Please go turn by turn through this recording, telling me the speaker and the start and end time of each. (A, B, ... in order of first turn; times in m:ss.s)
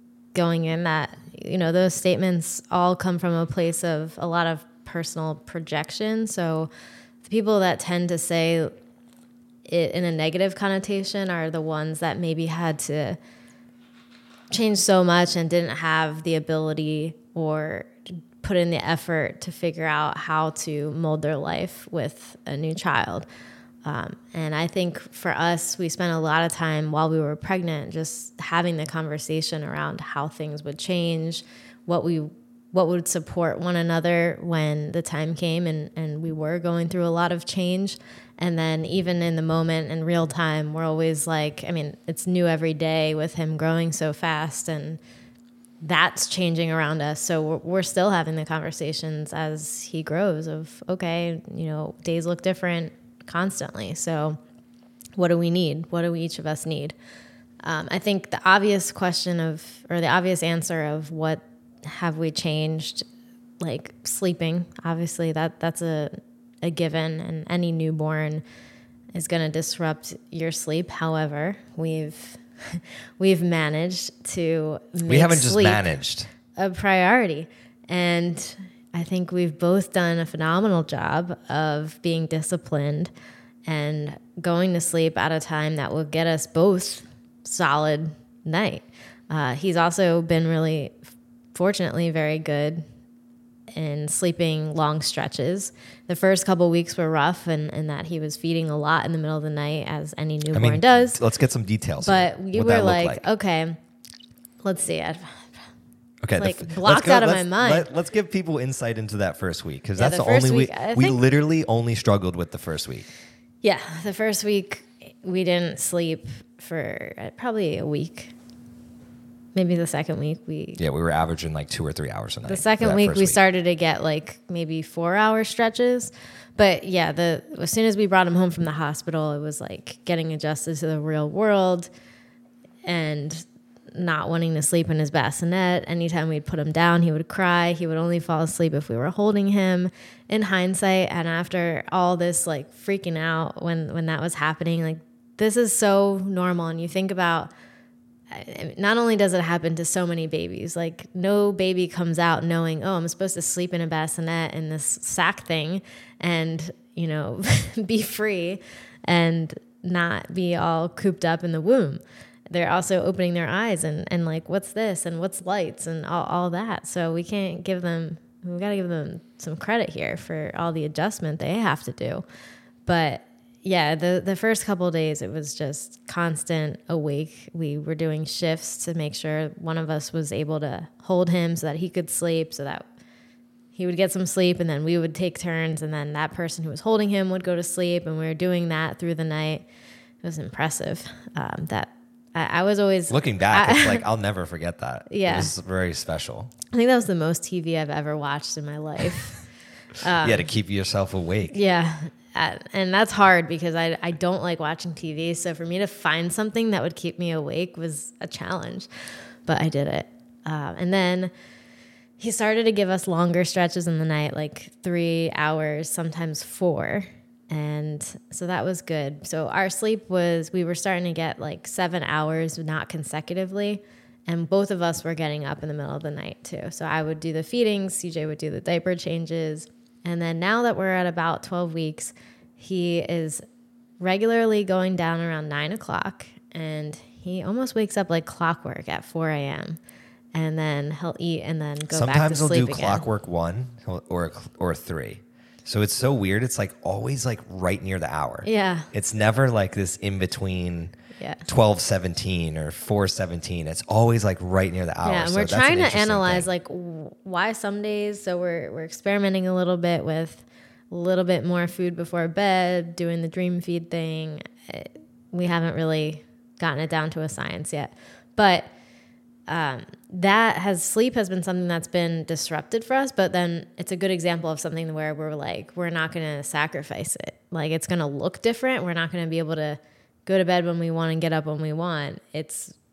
0:00.3-0:06.7 A
0:07.2-0:08.7 A
0:09.6-0:13.2 A
0:14.5-0:23.3 A
0:23.8-0:45.0 A
0:45.8-0:54.4 A
0:55.2-0:56.9 A
0:57.6-1:03.0 A
1:03.6-1:08.4 A
1:09.1-1:15.9 A
1:15.0-1:16.3 B
1:16.5-1:23.1 A
1:23.7-1:31.0 A
1:31.5-1:32.8 A
1:33.8-1:41.2 A
1:40.5-1:43.2 B
1:42.0-1:43.8 A
1:44.6-1:45.6 A
1:46.2-1:53.1 B
1:46.4-1:47.9 A
1:50.0-1:51.2 A
1:53.6-1:58.3 A
1:59.5-2:00.8 A
2:00.8-2:03.4 B
2:02.5-2:11.9 A
2:12.8-2:27.5 A
2:28.3-2:52.2 A
2:52.8-3:02.9 A
3:03.7-3:09.6 A
3:10.2-3:14.0 A
3:13.1-3:16.5 B
3:15.1-3:15.5 A
3:16.7-3:19.4 A
3:20.0-3:20.5 A
3:20.2-3:21.6 B
3:21.5-3:28.9 A
3:29.4-3:31.3 A
3:32.2-3:53.4 A
3:54.0-3:59.8 A
4:00.3-4:03.0 A
4:01.9-4:16.5 B
4:08.4-4:08.9 A
4:11.2-4:11.4 A
4:15.0-4:28.7 A
4:29.5-4:42.8 A